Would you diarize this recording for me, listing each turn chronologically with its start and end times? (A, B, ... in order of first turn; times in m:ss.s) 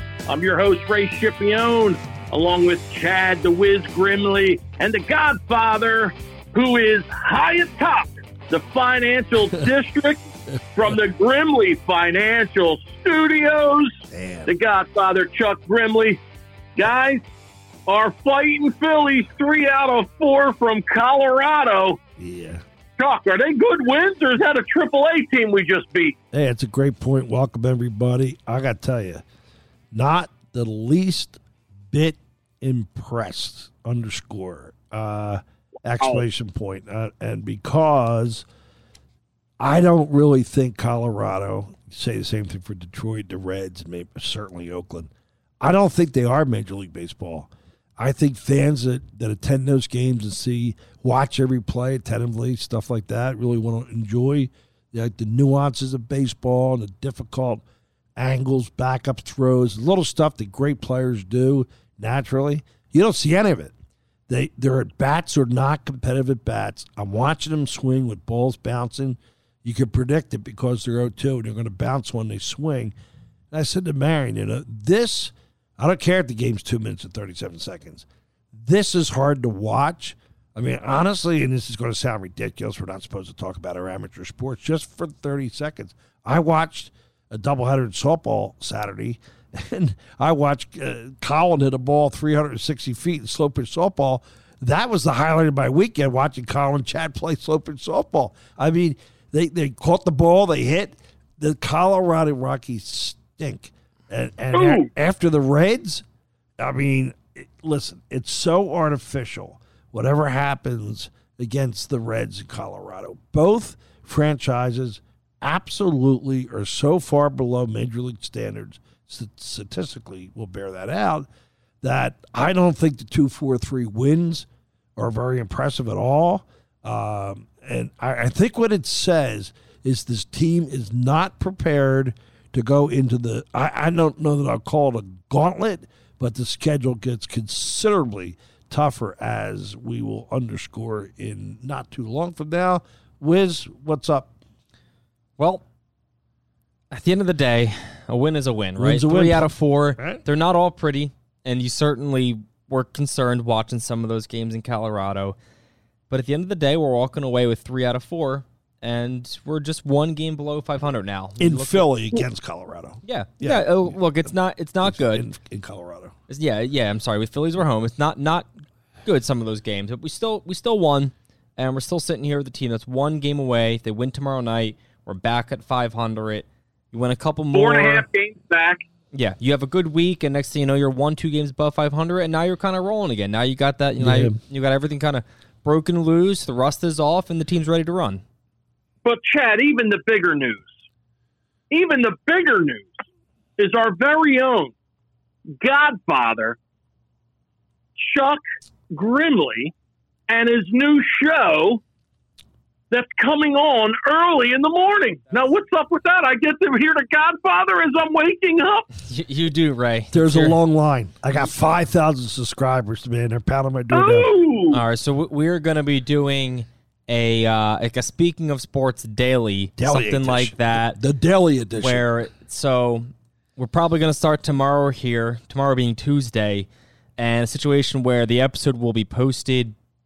0:00.3-0:10.2 A
0:10.7-0:16.2 A
0:14.1-0:14.5 B
0:16.8-0:17.2 A
0:17.9-0:22.0 A
0:22.2-0:22.6 B
0:23.0-0:26.2 A
0:26.3-0:29.2 B
0:29.9-0:38.4 B
0:39.6-0:57.6 B
0:58.2-1:03.7 B
1:04.3-1:12.9 B
1:13.5-1:46.0 B
1:44.5-1:44.9 A
1:46.6-2:01.3 B
2:01.8-2:24.3 B
2:25.4-2:25.6 C
2:26.9-2:35.3 C
2:28.8-2:30.2 B
2:36.1-2:42.2 C
2:41.4-2:44.3 B
2:43.0-2:45.3 C
2:44.8-2:46.1 B
2:46.3-2:48.5 C
2:49.0-2:58.0 C
2:57.5-2:58.8 A
2:59.1-3:08.2 C
3:04.0-3:04.4 B
3:09.0-3:10.7 A
3:11.7-3:12.9 A
3:13.6-3:14.7 A
3:15.6-3:16.6 A
3:18.0-3:19.7 A
3:20.3-3:21.8 A
3:22.9-3:28.9 A
3:29.0-3:30.6 C
3:30.1-3:34.3 B
3:33.9-3:34.8 A
3:34.7-3:41.0 C
3:39.8-3:42.0 B
3:41.8-3:49.7 C